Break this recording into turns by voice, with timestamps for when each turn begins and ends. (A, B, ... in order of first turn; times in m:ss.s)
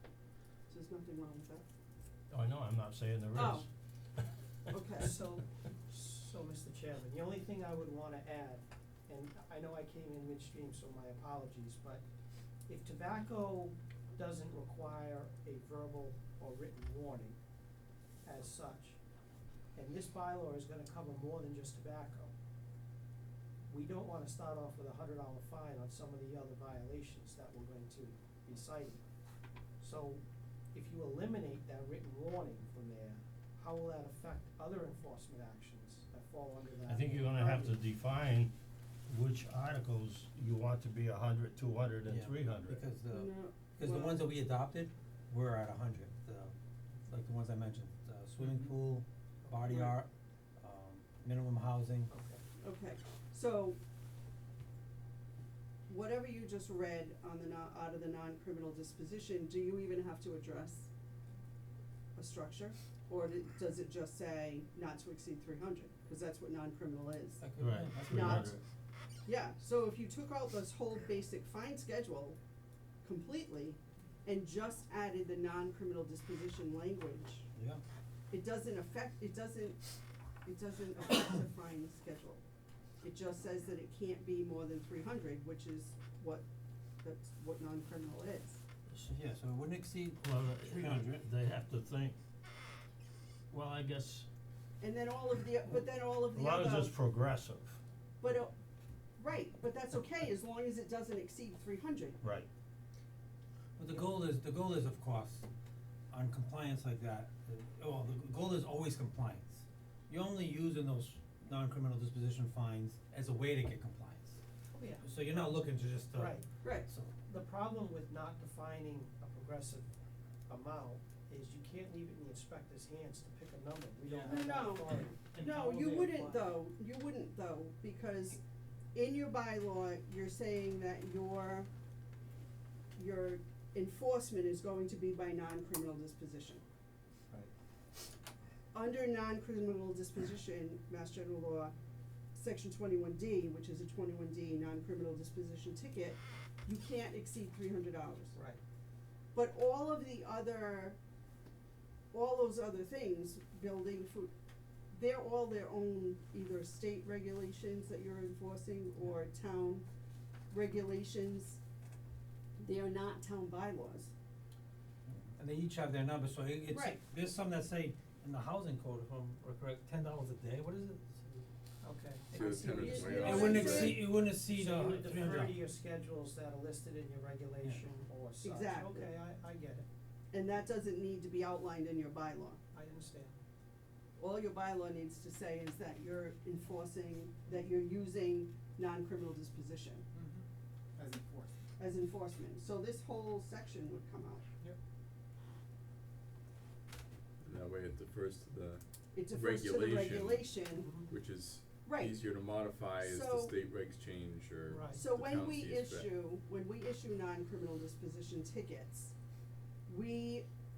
0:00.7-0:01.6 A
0:02.3-0:04.3 B
0:03.3-0:03.7 A
0:04.7-0:05.2 A
0:05.0-0:12.0 C
0:12.7-0:17.4 C
0:18.2-0:19.0 C
0:19.7-0:22.3 C
0:23.7-0:29.0 C
0:29.8-0:37.8 C
0:36.8-0:38.5 B
0:39.1-0:42.8 B
0:42.1-0:46.6 D
0:43.1-0:44.3 A
0:47.1-0:52.1 D
0:48.4-0:48.7 C
0:49.4-0:50.0 C
0:52.1-0:52.4 C
0:52.6-0:53.8 A
0:55.9-1:00.9 A
1:02.2-1:07.4 A
1:07.4-1:08.6 D
1:07.6-1:08.6 B
1:08.1-1:08.5 A
1:09.2-1:12.4 A
1:13.0-1:17.5 A
1:17.5-1:17.8 D
1:18.3-1:19.8 A
1:20.4-1:22.4 A
1:23.0-1:26.4 A
1:27.0-1:28.6 A
1:29.0-1:31.1 D
1:30.2-1:32.2 B
1:33.5-1:34.3 B
1:34.8-1:36.9 A
1:36.3-1:37.8 B
1:38.2-1:38.5 A
1:39.2-1:42.2 A
1:42.2-1:42.5 B
1:43.8-1:45.4 D
1:46.1-1:54.4 D
1:54.7-1:55.6 C
1:54.9-1:57.2 D
1:56.1-1:56.5 C
1:56.6-1:56.9 A
1:57.2-1:59.9 C
2:00.5-2:05.4 C
2:04.1-2:04.4 D
2:04.2-2:08.4 A
2:05.3-2:06.3 D
2:08.9-2:11.7 A
2:13.0-2:16.6 A
2:18.7-2:21.7 A
2:22.3-2:28.4 A
2:28.3-2:28.6 C
2:29.3-2:31.0 A
2:32.1-2:34.3 A
2:34.9-2:39.8 A
2:40.5-2:41.6 A
2:42.6-2:44.1 A
2:45.1-2:51.5 D
2:46.7-2:47.0 A
2:51.8-2:59.9 C
2:52.3-2:54.0 E
2:52.4-2:54.0 A
2:52.4-2:55.6 D
2:57.6-2:57.9 D
2:57.9-2:59.1 A
3:00.3-3:02.6 A
3:02.7-3:03.4 C
3:04.2-3:10.0 A
3:10.2-3:10.4 C
3:11.0-3:11.5 C
3:11.8-3:14.4 A
3:17.4-3:26.1 E
3:19.1-3:20.9 A
3:20.7-3:21.1 C
3:21.8-3:23.5 A
3:24.6-3:25.1 C
3:24.9-3:29.1 A
3:29.9-3:30.4 A